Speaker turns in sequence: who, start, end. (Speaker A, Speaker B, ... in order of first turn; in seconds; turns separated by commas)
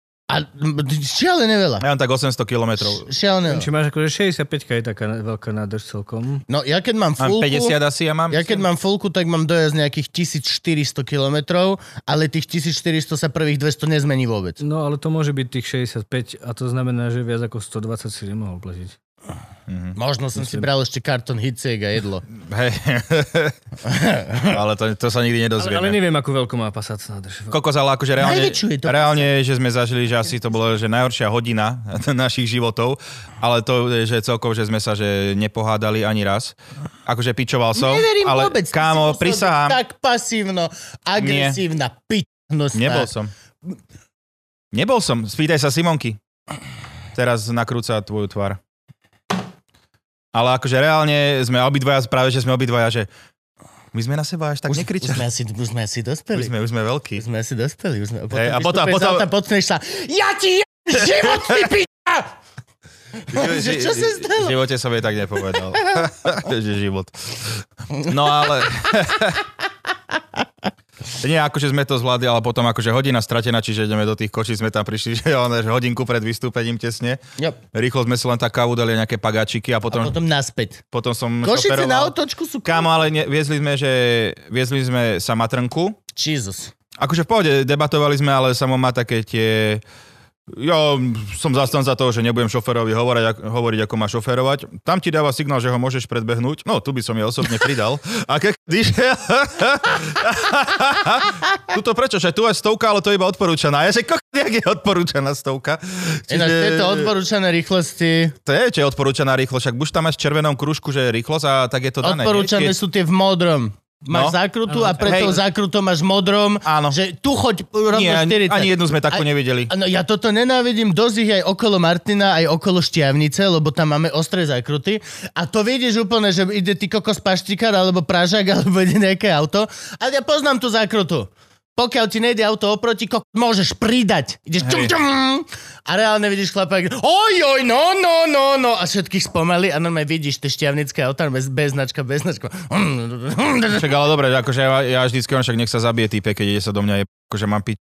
Speaker A: 0.3-1.8, Speaker B: 1.8-3.1, Speaker A: 2.9-3.7, Speaker C: 3.5-6.4, Speaker A: 6.5-7.8, Speaker B: 7.2-8.6, Speaker A: 8.3-14.6, Speaker C: 14.6-18.9, Speaker B: 19.7-20.0, Speaker A: 19.9-22.2, Speaker C: 20.4-20.6, Speaker B: 22.4-23.6, Speaker A: 23.8-24.6, Speaker B: 24.4-26.0, Speaker C: 25.6-27.6, Speaker B: 27.5-36.5, Speaker A: 28.2-29.3, Speaker B: 37.0-39.8, Speaker A: 37.7-43.1, Speaker B: 41.2-41.6, Speaker B: 42.7-43.3, Speaker B: 44.7-46.2, Speaker B: 47.1-48.6, Speaker B: 50.3-53.1, Speaker B: 53.9-55.2, Speaker A: 54.7-56.5, Speaker B: 56.3-57.2, Speaker A: 57.1-62.3, Speaker B: 58.3-59.2, Speaker B: 61.2-61.6, Speaker A: 63.3-64.5, Speaker B: 63.3-69.4, Speaker A: 65.7-66.0, Speaker A: 68.3-68.7, Speaker B: 71.1-77.2, Speaker B: 77.7-80.1, Speaker A: 79.9-80.8, Speaker B: 80.9-86.0, Speaker A: 81.4-83.0, Speaker A: 86.1-86.7, Speaker B: 87.0-89.8, Speaker B: 90.5-107.1, Speaker A: 106.3-108.3, Speaker B: 108.4-112.8, Speaker A: 112.0-143.9, Speaker B: 114.1-114.3, Speaker C: 114.7-115.3, Speaker B: 115.0-115.4, Speaker B: 116.6-117.0, Speaker B: 117.9-119.7, Speaker B: 143.7-147.8